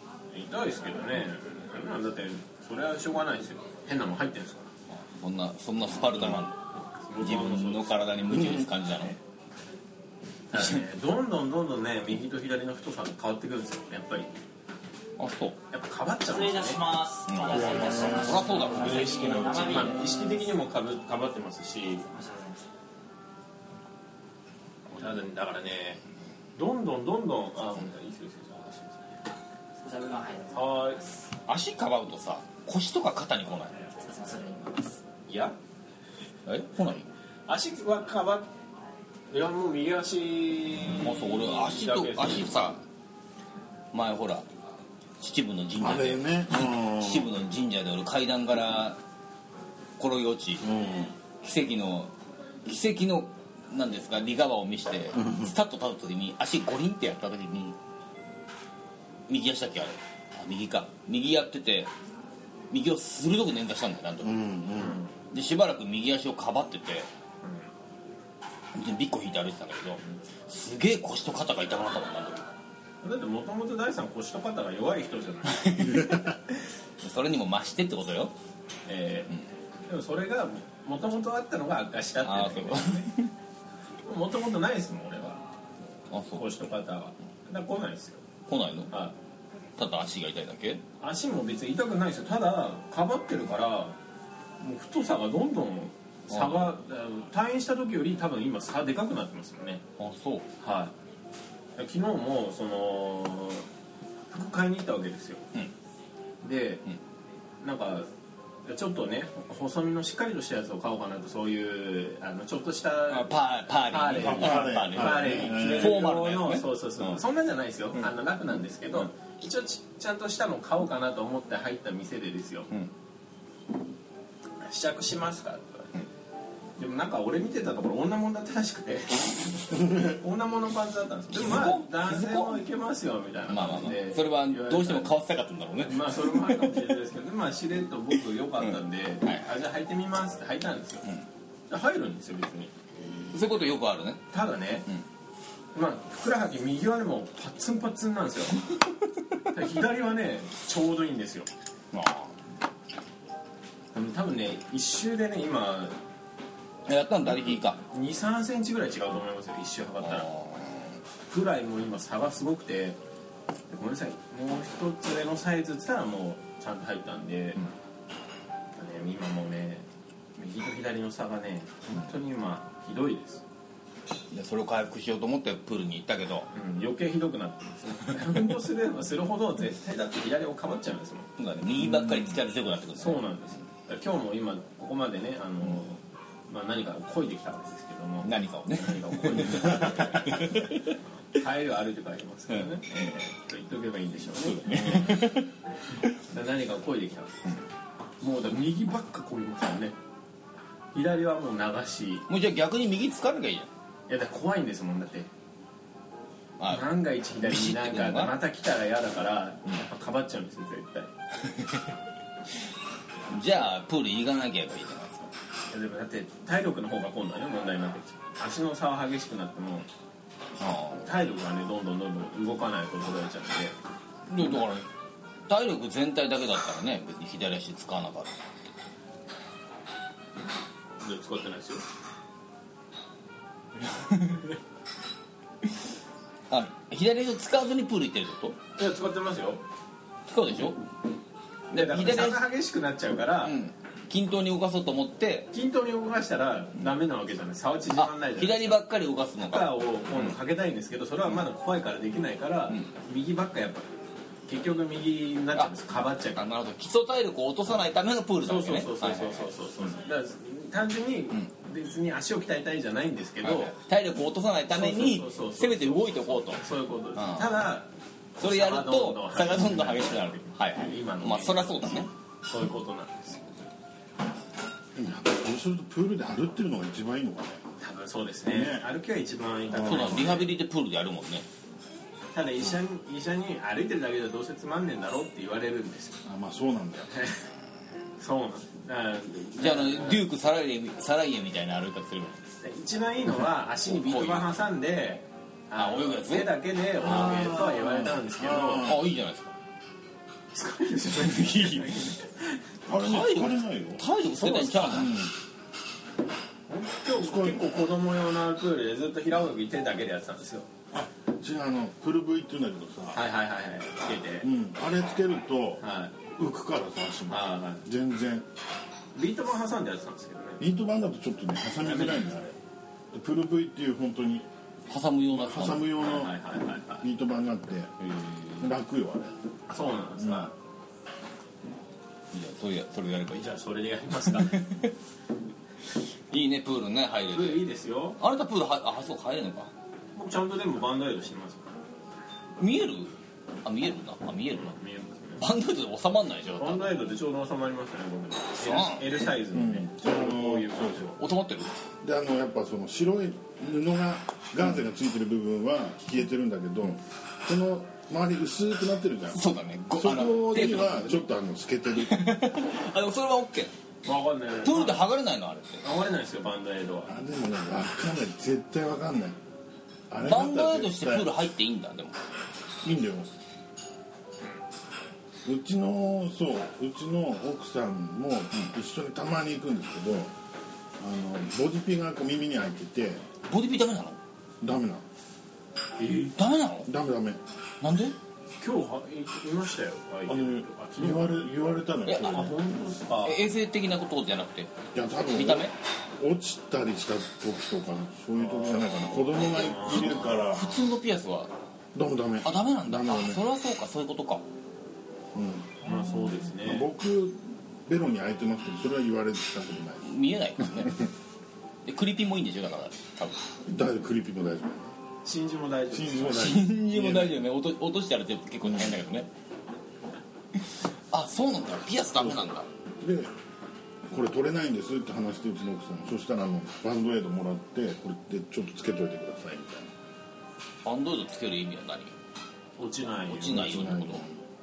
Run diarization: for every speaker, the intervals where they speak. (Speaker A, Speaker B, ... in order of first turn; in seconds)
Speaker A: 0.3-4.7, 7.1-8.2, 10.5-14.3, 15.7-16.8, 18.8-22.0, 24.9-26.0, 26.6-29.1, 30.5-31.0, 35.3-35.5, 37.5-38.5, 39.3-42.5, 64.8-65.1, 67.4-67.7, 73.0-76.2, 78.9-79.3, 79.9-83.1, 84.0-85.4, 86.3-88.2, 88.9-89.1, 91.0-94.0, 94.6-99.8, 100.6-100.9, 101.8-103.7, 104.3-105.4, 106.4-106.8, 107.6-108.1, 108.6-122.7, 124.6-125.9, 126.8-135.1, 135.8-141.1, 141.7-142.7, 144.3-144.9, 145.7-148.6, 149.5-151.5, 153.9-155.9, 157.9-160.3, 161.3-163.0, 163.7-167.6, 168.8-173.4, 176.5-181.3, 183.0-195.3, 196.2-197.3, 198.2-199.9, 200.9-202.2, 204.1-205.3, 206.7-211.1, 215.7-219.9, 221.0-223.7, 231.0-231.8, 238.8-239.6, 241.7-243.6, 245.5-248.8, 249.4-253.9, 254.5-256.5, 258.4-263.7, 264.7-271.9, 272.4-273.6, 277.8-280.5, 282.3-286.2, 287.1-287.5, 288.2-290.2, 292.6-298.9, 300.5-302.6, 304.4-305.1, 306.7-310.7, 313.1-314.5, 315.8-316.1, 317.3-317.8, 319.1-320.6, 321.8-322.4, 326.0-327.0, 329.7-330.5, 333.3-334.6, 337.3-338.2, 340.1-341.7, 344.5-345.4, 346.6-351.1, 364.0-365.0, 365.8-367.1, 386.0-386.3, 388.6-391.5, 392.2-393.4, 399.4-400.3, 405.8-406.9, 415.2-416.5, 432.8-433.8
Speaker B: 4.9-6.6, 7.2-9.2, 10.5-10.8, 15.2-15.6, 17.3-19.9, 31.5-33.8, 36.5-37.1, 40.9-42.8, 43.9-44.4, 45.2-49.0, 50.0-50.6, 51.4-52.1, 52.6-57.8, 59.3-61.9, 62.7-64.5, 65.3-67.1, 68.7-72.5, 75.5-76.3, 77.0-78.3, 82.2-83.3, 86.1-86.5, 88.5-88.9, 89.8-90.8, 96.3-96.7, 100.0-100.4, 113.1-117.2, 131.3-132.6, 133.5-136.8, 138.6-139.5, 143.3-144.2, 151.9-152.3, 156.9-157.8, 160.0-160.9, 174.3-176.5, 181.4-183.2, 188.2-190.9, 192.5-193.0, 194.4-195.5, 202.3-203.7, 206.6-206.9, 207.4-208.3, 211.4-211.8, 213.3-215.3, 220.6-221.1, 224.3-224.8, 225.5-228.4, 233.9-234.4, 236.5-238.6, 240.3-240.8, 241.7-242.4, 243.4-245.5, 247.9-250.3, 256.2-259.5, 263.4-266.6, 267.1-267.6, 268.4-272.1, 279.7-281.4, 289.6-292.4, 293.8-294.5, 295.8-296.5, 297.1-297.6, 298.8-299.5, 301.2-301.9, 302.9-305.3, 324.9-325.9, 328.0-328.7, 332.3-333.5, 334.3-334.9, 336.3-337.6, 338.2-339.7, 342.6-344.7, 345.4-347.0, 348.6-349.1, 351.2-351.7, 359.3-361.2, 362.0-363.7, 364.6-365.8, 370.2-372.2, 383.5-384.2, 386.3-386.9, 387.8-388.1, 392.1-392.5, 393.2-394.7, 395.3-395.7, 399.7-401.5, 402.4-404.4, 410.0-411.0, 411.8-413.5, 416.3-419.3, 420.6-422.7, 430.8-432.1, 433.3-434.2
Speaker C: 8.3-8.6, 17.5-18.6, 45.8-47.3, 50.6-51.1, 55.1-55.5, 64.2-65.0, 114.2-116.0, 274.9-277.6, 278.5-278.9, 279.7-280.3, 286.2-287.1, 297.1-299.0, 302.9-304.0, 307.1-307.7, 310.9-313.2, 314.4-318.4, 320.6-322.5, 323.1-324.4, 325.3-326.3, 327.0-327.9, 328.6-329.3, 330.2-330.5, 349.5-351.2, 352.0-359.4, 359.9-362.3, 367.1-369.4, 370.1-371.3, 372.8-373.3, 375.4-380.3, 381.0-383.2, 384.6-385.0, 386.9-387.4, 390.2-392.5, 394.9-400.8, 401.9-403.4, 405.3-405.8, 406.6-410.1, 410.6-411.1, 413.6-414.9, 415.9-417.4, 418.6-418.9, 422.1-423.3, 424.1-429.9, 433.5-434.4
Speaker D: 16.3-20.5, 22.0-22.6, 29.8-31.0, 34.0-35.0